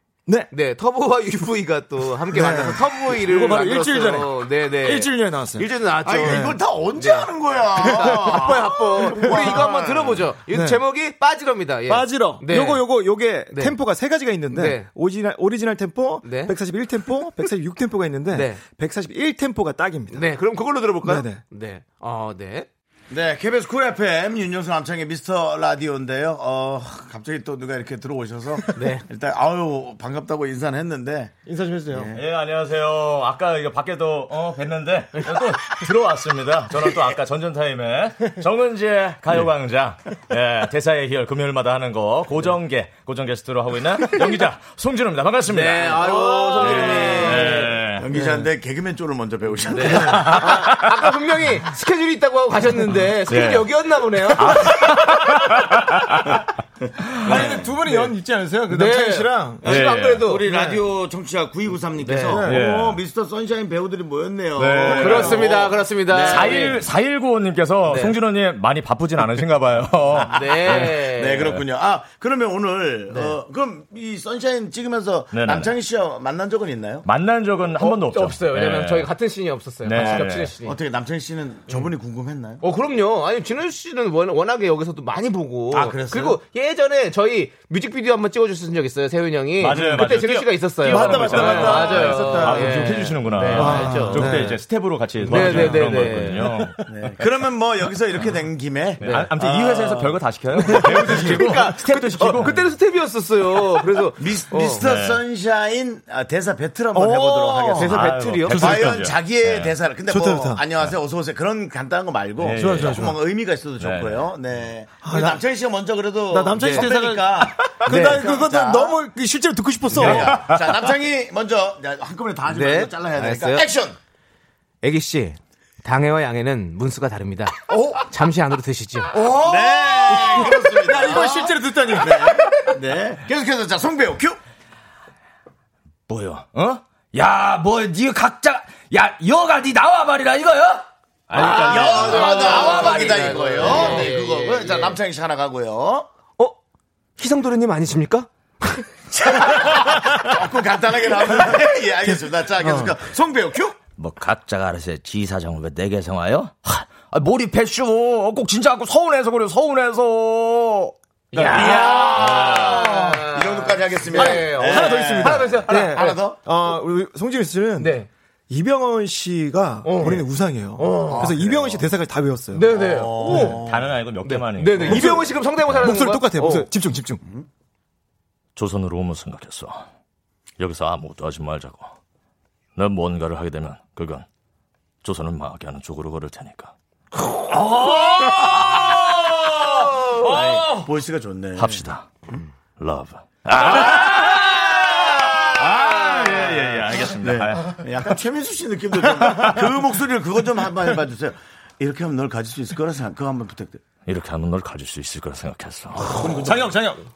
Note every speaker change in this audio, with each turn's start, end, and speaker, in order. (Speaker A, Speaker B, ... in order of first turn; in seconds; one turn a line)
Speaker A: 0.5-12.8
Speaker B: 2.3-5.7
Speaker C: 6.0-10.3
Speaker B: 6.2-6.6
Speaker B: 7.9-8.3
Speaker B: 9.1-9.6
Speaker B: 10.5-10.8
Speaker B: 11.9-20.3
Speaker A: 13.5-13.8
Speaker A: 14.5-14.9
Speaker A: 16.2-16.5
Speaker A: 18.3-18.6
Speaker A: 20.1-22.7
Speaker B: 21.0-21.4
Speaker C: 23.1-31.4
Speaker A: 28.7-29.0
Speaker B: 31.4-32.1
Speaker C: 31.9-32.2
Speaker D: 32.1-46.0
Speaker A: 45.5-47.8
Speaker C: 46.0-50.6
Speaker D: 46.6-48.1
Speaker A: 49.7-55.2
Speaker D: 53.3-53.7
Speaker D: 54.3-56.4
Speaker B: 57.2-59.6
Speaker C: 57.2-58.0
Speaker A: 58.7-60.5
Speaker C: 59.6-66.8
Speaker D: 59.7-60.2
Speaker B: 60.4-60.8
Speaker A: 62.0-62.4
Speaker B: 62.3-62.7
Speaker D: 62.5-63.0
Speaker D: 64.6-65.5
Speaker A: 64.9-66.8
Speaker D: 66.2-71.6
Speaker A: 67.8-68.2
Speaker C: 70.1-77.1
Speaker A: 70.3-71.5
Speaker A: 73.1-73.4
Speaker D: 75.3-75.7
Speaker D: 77.0-79.1
Speaker A: 77.8-80.8
Speaker D: 79.8-80.5
Speaker C: 80.0-82.6
Speaker A: 82.6-94.4
Speaker C: 85.7-86.4
Speaker D: 89.6-96.9
Speaker B: 90.8-93.0
Speaker C: 91.6-92.1
Speaker B: 93.5-94.6
Speaker A: 95.2-96.5
Speaker B: 95.3-95.8
Speaker C: 95.4-95.8
Speaker C: 96.9-101.3
Speaker D: 99.0-102.7
Speaker A: 99.0-99.3
Speaker A: 100.7-104.9
Speaker C: 104.2-108.0
Speaker D: 104.8-105.2
Speaker B: 106.9-107.9
Speaker A: 107.8-108.6
Speaker D: 107.9-109.7
Speaker B: 108.5-109.0
Speaker C: 108.5-119.0
Speaker B: 110.1-110.6
Speaker D: 112.4-113.1
Speaker B: 112.6-113.2
Speaker D: 113.8-114.2
Speaker B: 115.0-115.4
Speaker B: 116.3-120.5
Speaker A: 116.5-116.9
Speaker A: 117.8-118.3
Speaker C: 119.9-124.0
Speaker D: 120.0-120.6
Speaker A: 122.5-123.7
Speaker A: 124.8-129.1
Speaker B: 127.7-128.0
Speaker B: 129.1-132.6
Speaker C: 129.2-134.4
Speaker D: 136.1-143.8
Speaker A: 141.3-145.0
Speaker C: 141.4-146.1
Speaker A: 147.2-149.7
Speaker C: 149.2-153.8
Speaker D: 154.0-161.9
Speaker A: 161.3-166.2
Speaker C: 161.4-166.5
Speaker B: 164.1-168.0
Speaker A: 167.8-168.1
Speaker B: 168.5-172.7
Speaker A: 169.8-170.2
Speaker A: 170.8-171.3
Speaker C: 171.0-171.9
Speaker A: 172.5-173.6
Speaker C: 172.6-174.0
Speaker B: 173.2-173.6
Speaker D: 173.6-175.8
Speaker A: 174.2-176.7
Speaker B: 174.8-177.2
Speaker D: 178.6-179.9
Speaker D: 180.6-181.9
Speaker D: 182.8-184.2
Speaker D: 185.0-186.7
Speaker D: 188.1-189.6
Speaker A: 189.7-190.3
Speaker C: 190.1-192.5
Speaker D: 190.3-190.6
Speaker D: 191.6-192.1
Speaker D: 192.8-197.8
Speaker C: 193.5-194.5
Speaker C: 195.4-203.8
Speaker A: 196.0-196.6
Speaker D: 204.0-206.7
Speaker C: 206.0-206.8
Speaker B: 206.4-207.0